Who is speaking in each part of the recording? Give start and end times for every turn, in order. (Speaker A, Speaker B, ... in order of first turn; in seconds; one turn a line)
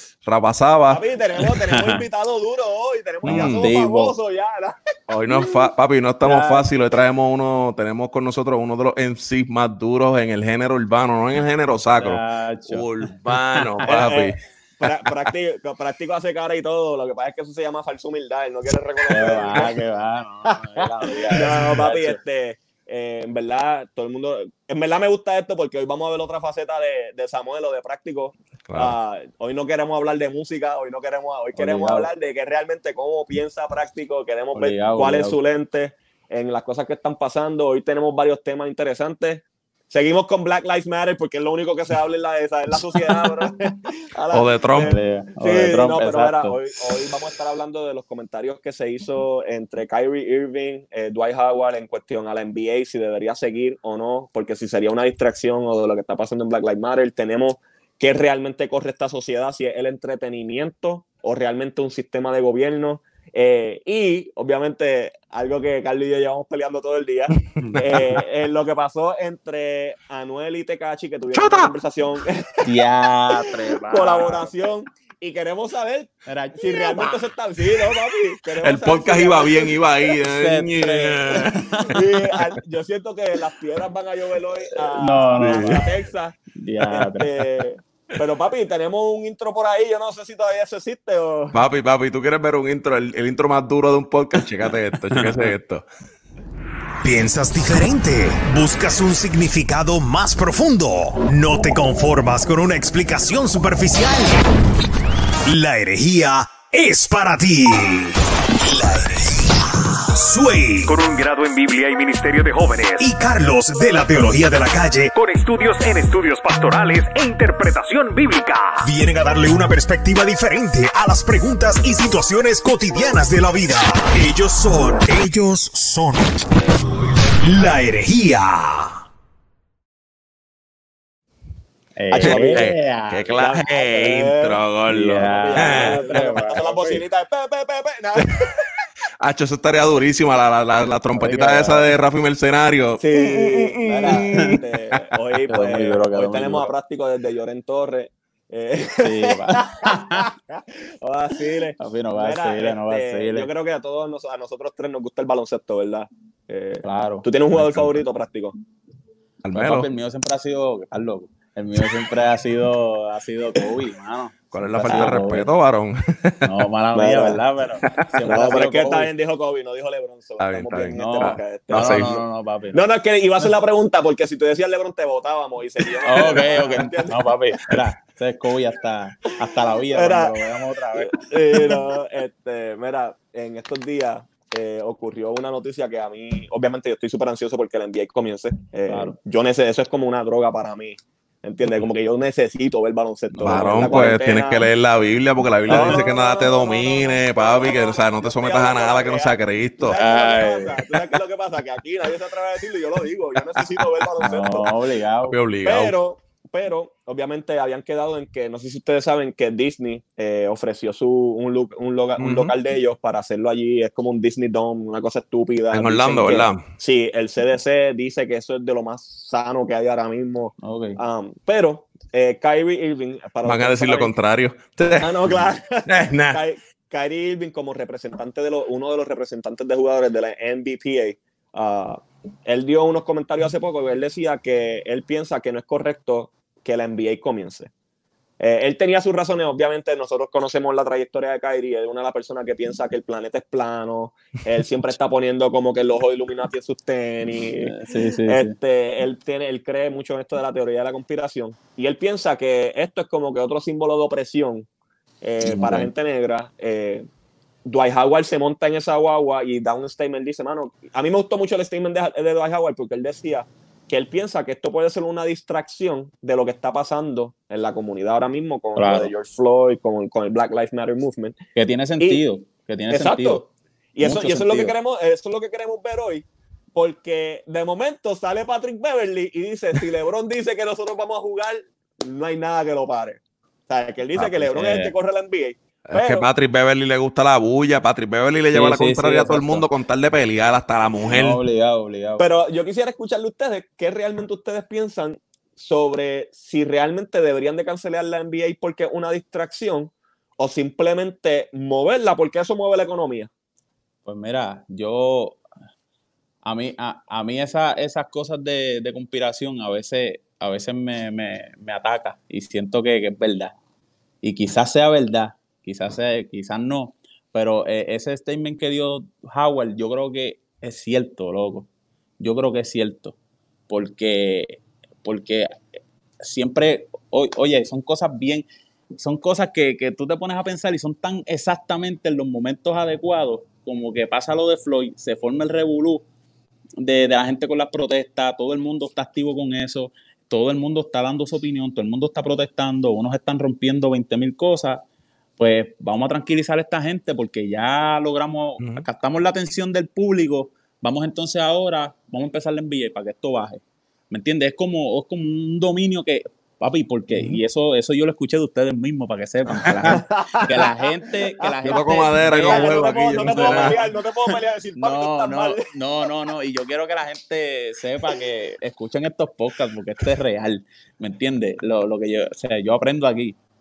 Speaker A: 0.2-1.0
Speaker B: 0.9-4.8
Speaker C: 1.8-2.0
Speaker A: 3.2-3.7
Speaker C: 3.2-4.2
Speaker A: 5.1-15.3
Speaker B: 6.3-6.6
Speaker C: 12.0-13.8
Speaker B: 13.8-19.7
Speaker C: 19.1-22.2
Speaker B: 21.3-72.8
Speaker A: 28.7-29.0
Speaker C: 31.6-32.1
Speaker C: 34.5-35.4
Speaker A: 44.3-44.9
Speaker C: 44.8-46.6
Speaker A: 67.5-68.2
Speaker A: 71.3-71.7
Speaker C: 72.6-74.5
Speaker B: 73.3-79.8
Speaker C: 76.3-77.2
Speaker A: 78.6-81.8
Speaker C: 80.1-82.0
Speaker B: 81.9-91.6
Speaker C: 84.8-85.9
Speaker A: 85.4-85.9
Speaker C: 86.5-87.5
Speaker A: 91.5-95.8
Speaker C: 95.1-95.5
Speaker D: 97.0-104.5
Speaker D: 105.5-111.2
Speaker E: 111.2-112.9
Speaker D: 112.9-115.9
Speaker E: 115.6-116.3
Speaker D: 116.5-117.9
Speaker E: 118.1-118.7
Speaker D: 118.8-129.0
Speaker C: 132.0-133.2
Speaker B: 132.1-132.7
Speaker A: 132.2-136.6
Speaker B: 133.3-134.6
Speaker C: 134.9-137.0
Speaker B: 135.4-138.6
Speaker A: 138.2-138.5
Speaker A: 139.2-145.1
Speaker C: 141.2-141.6
Speaker B: 141.2-141.9
Speaker B: 143.0-158.6
Speaker C: 144.0-144.6
Speaker C: 145.5-146.7
Speaker C: 149.0-150.3
Speaker C: 151.8-153.5
Speaker C: 156.8-157.3
Speaker A: 157.6-157.9
Speaker A: 159.4-159.9
Speaker C: 159.5-165.5
Speaker A: 164.5-166.5
Speaker C: 166.4-169.1
Speaker B: 166.9-167.4
Speaker B: 168.2-177.2
Speaker A: 170.4-172.1
Speaker C: 170.9-172.8
Speaker C: 176.1-181.8
Speaker A: 176.1-176.4
Speaker B: 179.8-194.7
Speaker C: 188.9-189.2
Speaker C: 193.3-194.2
Speaker A: 193.4-200.0
Speaker C: 195.7-196.0
Speaker B: 195.7-204.7
Speaker C: 199.9-200.9
Speaker A: 203.6-204.1
Speaker C: 204.2-205.4
Speaker A: 205.3-205.9
Speaker B: 205.7-224.1
Speaker A: 212.2-212.5
Speaker A: 215.7-216.6
Speaker C: 220.6-221.0
Speaker A: 223.4-225.3
Speaker B: 225.0-237.7
Speaker A: 225.9-226.4
Speaker B: 238.4-254.7
Speaker C: 247.6-248.5
Speaker B: 255.2-257.1
Speaker C: 255.4-255.9
Speaker B: 257.6-271.4
Speaker C: 268.8-269.1
Speaker C: 271.6-273.5
Speaker B: 272.9-286.3
Speaker C: 274.0-274.8
Speaker C: 284.2-284.9
Speaker A: 285.9-291.4
Speaker C: 288.5-289.7
Speaker C: 291.1-292.2
Speaker B: 292.2-303.3
Speaker C: 304.1-305.4
Speaker C: 306.4-313.6
Speaker C: 314.2-321.7
Speaker C: 322.2-323.2
Speaker C: 323.7-325.5
Speaker C: 326.2-336.1
Speaker C: 336.8-344.9
Speaker C: 345.4-363.9
Speaker A: 348.6-348.9
Speaker B: 359.6-360.9
Speaker A: 359.7-360.0
Speaker A: 361.6-363.8
Speaker B: 362.3-366.1
Speaker C: 364.8-373.4